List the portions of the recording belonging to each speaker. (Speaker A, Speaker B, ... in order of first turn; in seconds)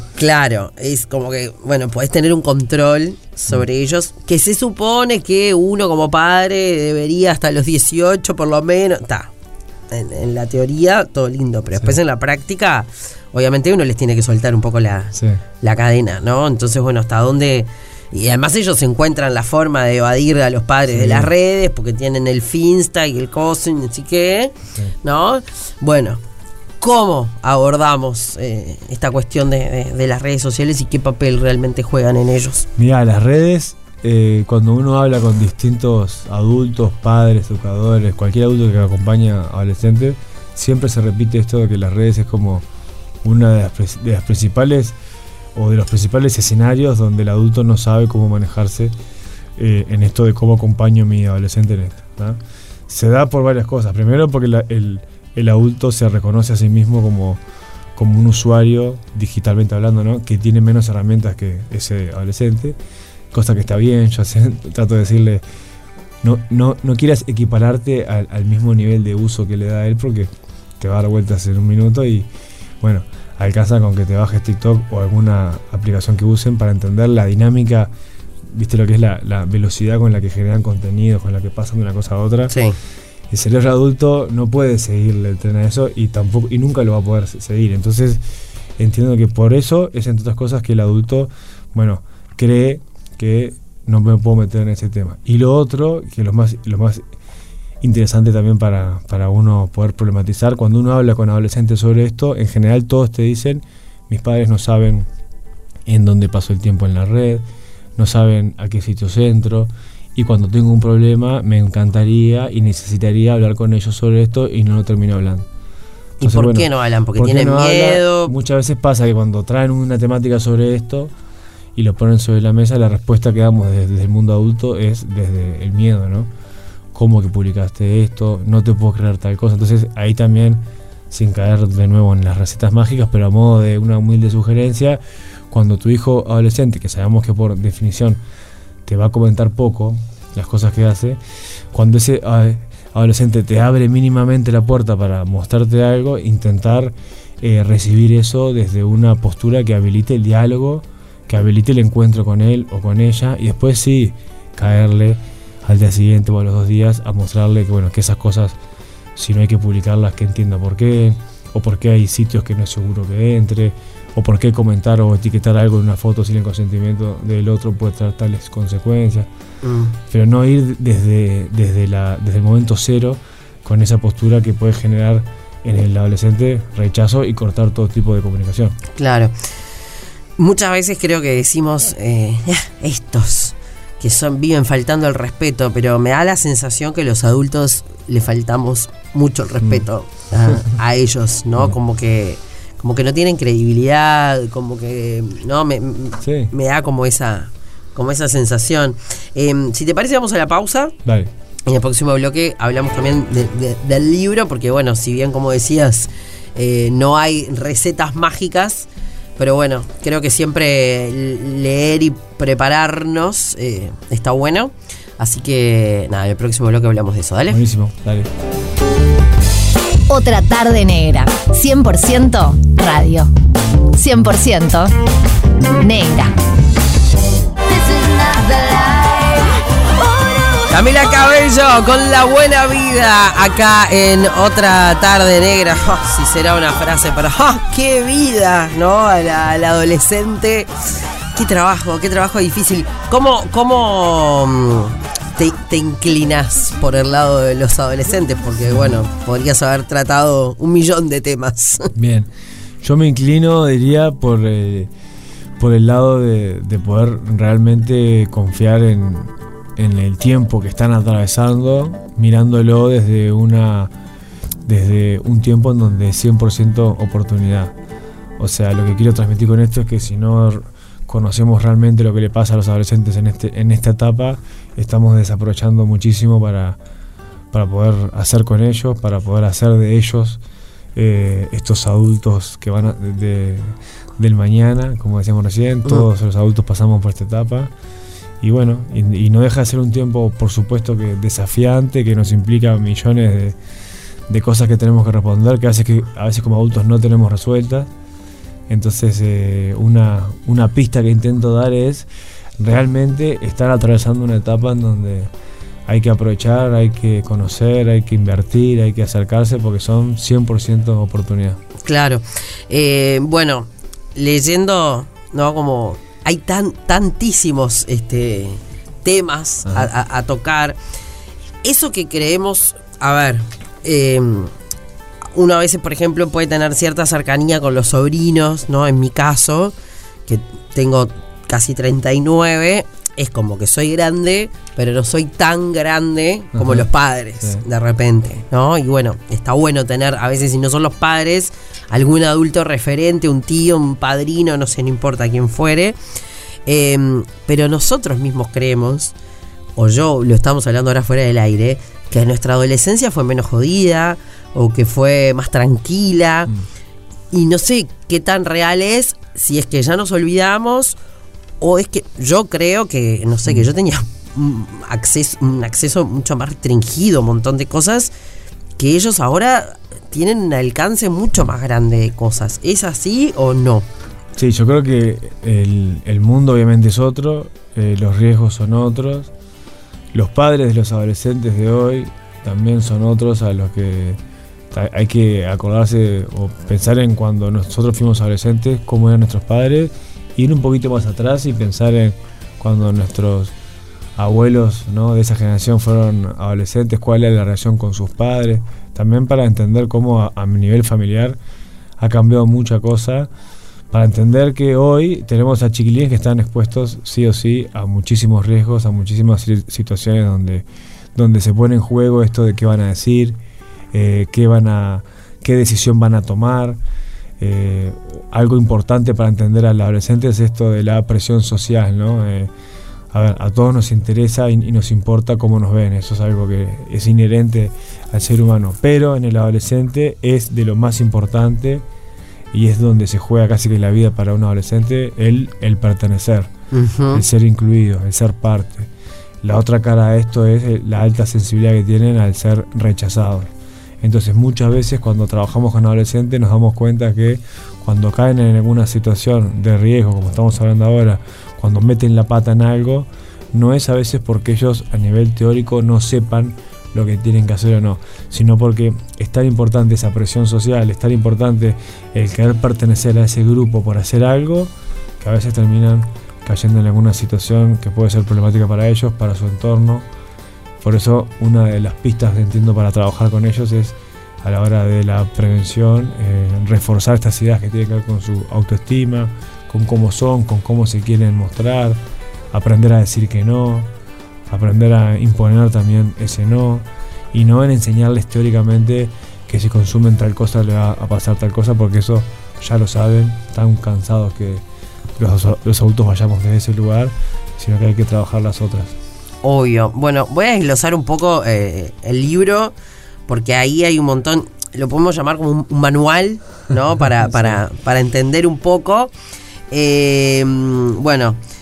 Speaker A: 0.1-9.3, 9.9-26.2, 26.8-32.7, 82.5-82.8, 116.2-118.3, 169.6-170.0, 178.9-179.3, 180.4-200.9, 201.7-217.6, 230.7-240.7, 241.3-251.9, 311.8-320.8, 321.6-324.5, 325.3-329.8, 330.3-346.0, 346.7-349.1, 349.8-356.5, 357.3-361.0, 361.6-368.1, 368.8-373.9, 436.7-437.2, 499.4-502.8, 503.3-509.1, 509.7-511.4
Speaker B: 15.2-15.4, 20.9-21.3, 32.8-42.6, 43.2-45.0, 45.5-48.9, 49.6-57.4, 58.0-62.8, 63.3-65.4, 66.2-72.3, 72.8-77.9, 78.5-82.5, 83.3-88.2, 88.8-97.0, 97.8-105.1, 105.9-107.4, 108.0-115.5, 116.2-121.1, 121.8-126.3, 126.9-138.2, 138.8-141.2, 141.7-158.6, 159.2-169.3, 170.1-178.8, 196.2-196.5, 201.1-201.3, 217.5-218.3, 251.9-252.3, 252.8-254.9, 255.6-263.9, 264.6-267.7, 268.4-276.8, 277.5-280.4, 280.9-287.7, 288.4-293.6, 294.3-297.9, 298.7-305.3, 305.9-311.6, 336.6-336.9, 374.4-379.3, 380.1-384.2, 384.7-393.5, 394.2-401.4, 402.0-403.3, 403.9-413.4, 413.9-416.8, 417.4-422.5, 423.1-431.8, 432.5-436.5, 437.1-438.9, 439.4-443.5, 444.0-470.1, 470.8-482.0, 482.5-483.9, 484.5-494.6, 495.2-499.0
Speaker C: 220.1-223.3, 223.9-225.0, 225.8-226.3, 227.6-230.7